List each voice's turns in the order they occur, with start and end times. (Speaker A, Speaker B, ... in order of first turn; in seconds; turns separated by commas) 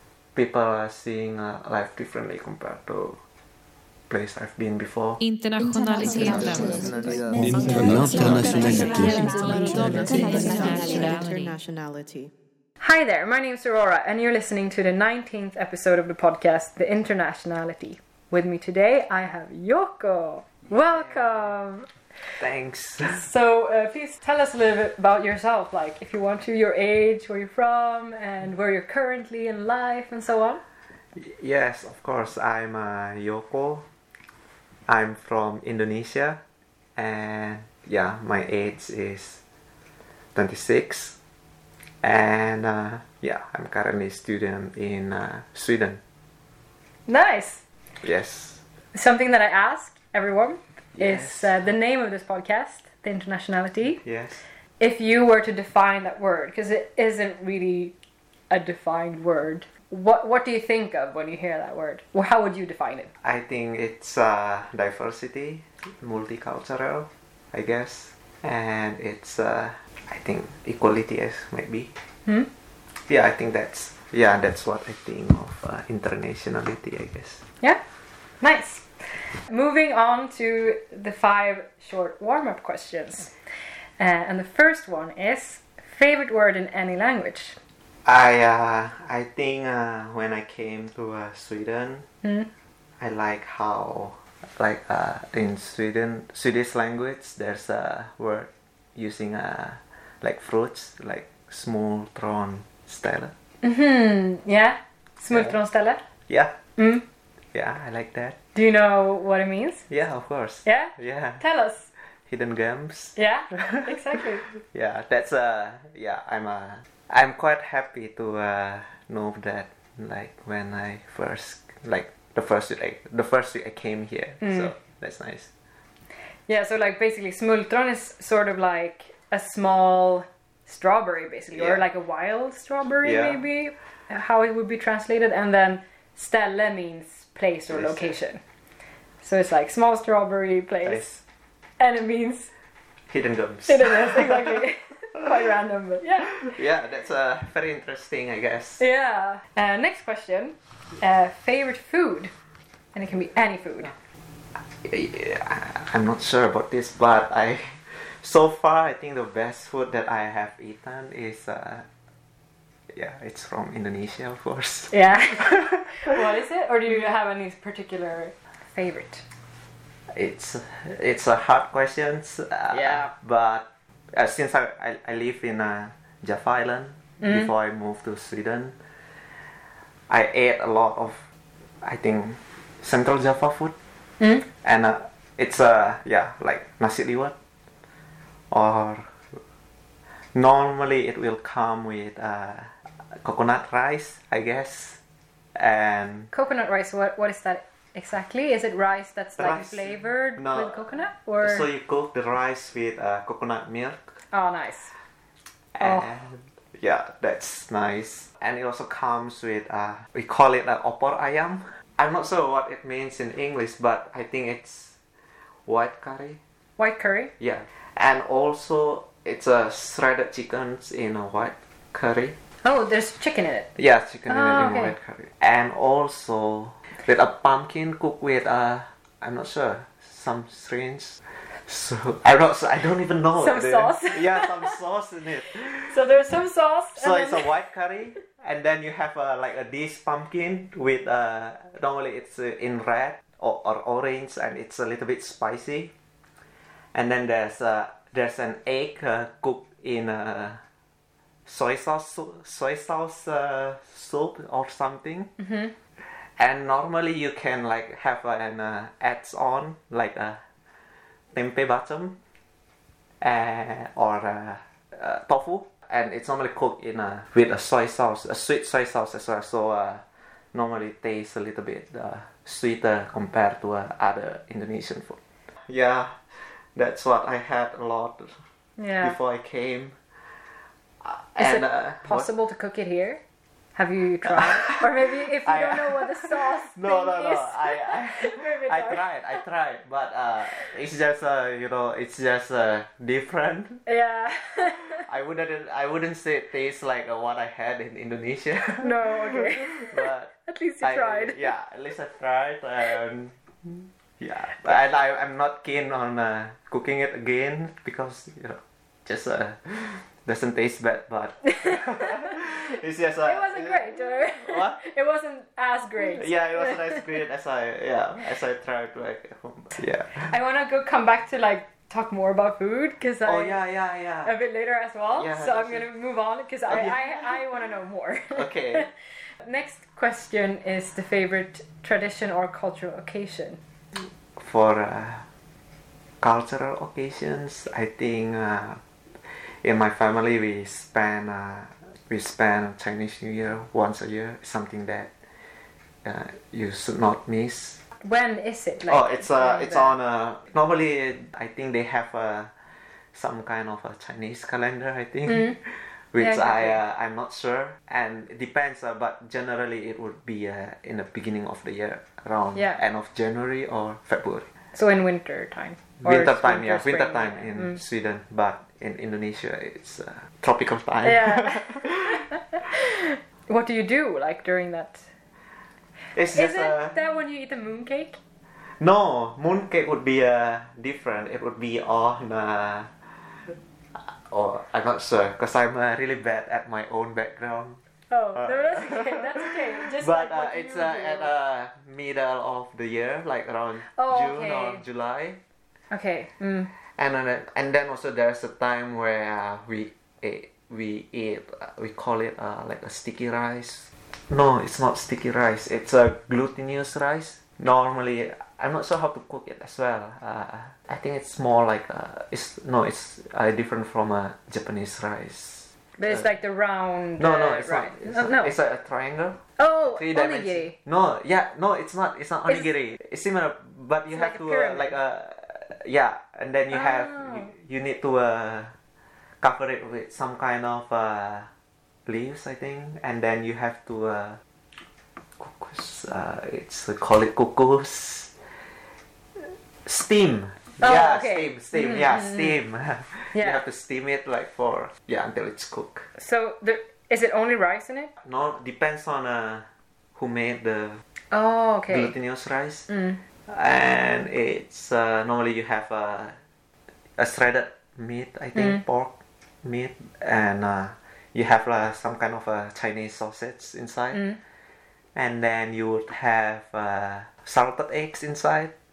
Speaker A: 0.3-3.2, Speaker A: 4.1-5.2, Speaker B: 5.2-6.8, Speaker B: 8.0-11.5, Speaker C: 9.4-12.3, Speaker D: 12.8-21.9, Speaker A: 22.4-23.2, Speaker D: 23.0-30.6, Speaker A: 31.1-33.8, Speaker A: 34.9-36.4, Speaker A: 37.0-39.4, Speaker A: 40.3-41.1, Speaker A: 42.0-46.0, Speaker D: 47.1-47.6, Speaker A: 48.0-48.6, Speaker D: 48.9-54.0, Speaker A: 51.0-51.5, Speaker A: 54.0-54.4, Speaker D: 54.8-57.9, Speaker D: 58.5-63.1, Speaker A: 63.2-71.9, Speaker A: 73.1-77.4, Speaker D: 78.4-78.9, Speaker D: 79.5-83.3, Speaker D: 84.0-87.6, Speaker A: 88.0-92.1, Speaker A: 93.0-103.3, Speaker D: 103.6-106.0, Speaker A: 106.3-106.5, Speaker D: 106.8-107.0, Speaker A: 107.5-108.3, Speaker D: 108.5-109.9, Speaker A: 109.9-111.4, Speaker D: 110.6-111.9, Speaker A: 112.3-125.5, Speaker D: 113.2-114.4, Speaker D: 126.5-138.4, Speaker A: 131.5-131.8, Speaker A: 133.0-133.4, Speaker A: 137.7-138.1, Speaker D: 139.2-141.0, Speaker A: 140.8-141.2, Speaker D: 141.8-142.5, Speaker A: 143.1-144.6, Speaker D: 143.7-146.4, Speaker A: 146.2-148.8, Speaker D: 148.8-152.3, Speaker D: 152.9-153.9, Speaker A: 154.6-161.8, Speaker A: 162.9-166.2, Speaker D: 164.9-169.2, Speaker A: 170.1-178.8, Speaker D: 172.7-173.1, Speaker A: 180.1-181.2, Speaker A: 181.8-183.7, Speaker A: 184.4-187.3, Speaker A: 188.5-189.1, Speaker A: 190.3-195.0, Speaker A: 195.5-196.3, Speaker D: 196.3-201.7, Speaker A: 199.4-200.8, Speaker A: 201.4-204.1, Speaker D: 204.3-204.9, Speaker A: 205.7-214.9, Speaker A: 215.7-216.4, Speaker D: 216.8-217.3, Speaker A: 217.4-222.3, Speaker D: 222.6-223.7, Speaker A: 223.8-236.0, Speaker D: 224.3-224.9, Speaker D: 233.4-234.7, Speaker D: 235.6-237.5, Speaker A: 236.9-245.9, Speaker A: 246.9-250.6, Speaker A: 251.4-255.3, Speaker D: 255.4-255.7, Speaker A: 256.4-260.4, Speaker A: 261.3-262.2, Speaker A: 263.2-276.2, Speaker A: 276.7-278.4, Speaker D: 278.8-279.1, Speaker A: 279.0-279.9, Speaker A: 281.0-282.3, Speaker D: 281.4-283.2, Speaker D: 283.8-289.1, Speaker A: 284.2-293.8, Speaker D: 293.9-295.0, Speaker A: 294.6-300.3, Speaker D: 298.8-301.5, Speaker A: 300.8-314.8, Speaker D: 313.2-317.0, Speaker A: 316.1-320.3, Speaker D: 320.2-323.6, Speaker A: 323.2-324.3, Speaker D: 324.2-333.6, Speaker A: 325.1-325.8, Speaker A: 326.7-327.4, Speaker A: 328.3-328.9, Speaker A: 333.9-335.2, Speaker A: 336.2-345.1, Speaker A: 346.0-347.8, Speaker D: 348.0-349.9, Speaker A: 348.9-352.5, Speaker A: 353.1-364.5, Speaker D: 355.3-355.5, Speaker D: 356.2-356.8, Speaker D: 364.7-367.8, Speaker A: 366.0-372.2, Speaker D: 371.0-375.1, Speaker A: 376.1-376.9, Speaker D: 376.3-378.2, Speaker A: 378.8-382.9, Speaker A: 383.9-387.8, Speaker D: 388.1-391.3, Speaker A: 388.4-395.4, Speaker D: 393.9-394.8, Speaker D: 395.9-396.7, Speaker A: 396.9-416.3, Speaker D: 416.0-418.5, Speaker A: 417.2-419.4, Speaker D: 419.6-420.7, Speaker A: 419.9-428.7, Speaker D: 424.1-424.9, Speaker D: 426.7-427.5, Speaker A: 429.4-431.5, Speaker A: 432.1-434.4, Speaker A: 435.4-438.3, Speaker A: 439.4-446.1, Speaker D: 440.8-442.4, Speaker D: 443.3-443.6, Speaker D: 446.2-448.1, Speaker A: 448.2-451.0, Speaker D: 451.3-452.1, Speaker A: 451.9-452.9, Speaker D: 452.9-453.2, Speaker A: 453.5-456.4, Speaker A: 457.2-464.3, Speaker A: 465.1-468.7